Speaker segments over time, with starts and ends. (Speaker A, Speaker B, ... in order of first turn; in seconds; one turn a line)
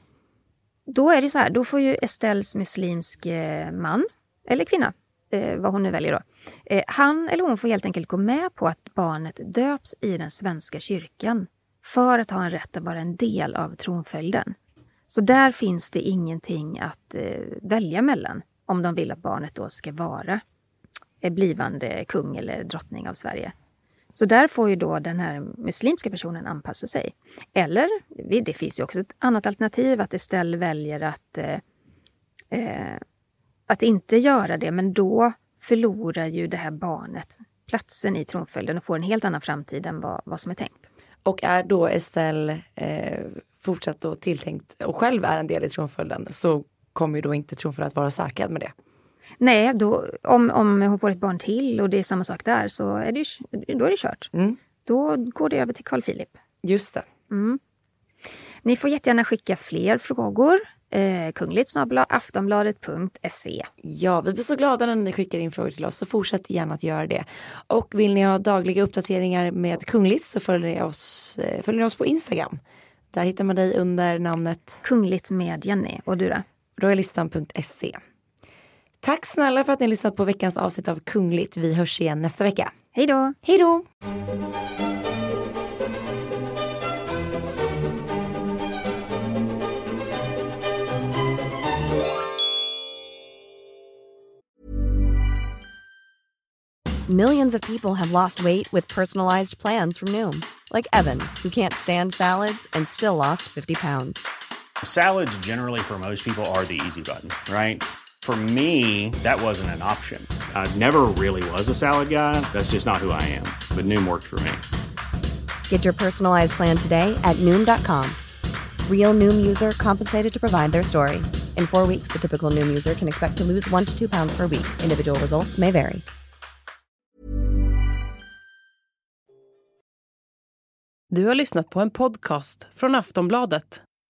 Speaker A: 0.9-14.6
Speaker A: 15.1-20.4
Speaker A: 21.2-23.5
Speaker A: 24.1-31.6
Speaker A: 32.5-33.0
Speaker A: 33.7-40.9
Speaker B: 41.2-48.7
Speaker A: 49.4-54.3
Speaker A: 54.8-56.4
Speaker B: 56.6-57.1
Speaker A: 57.3-57.6
Speaker A: 58.6-63.7
Speaker B: 63.8-72.6
Speaker B: 73.1-74.8
Speaker A: 74.8-76.4
Speaker B: 76.8-78.0
Speaker B: 79.0-82.7
Speaker A: 82.9-83.3
Speaker B: 83.4-83.8
Speaker C: 97.1-104.3
Speaker D: 104.8-114.6
Speaker C: 115.7-118.2
Speaker C: 118.8-126.0
Speaker E: 131.1-133.8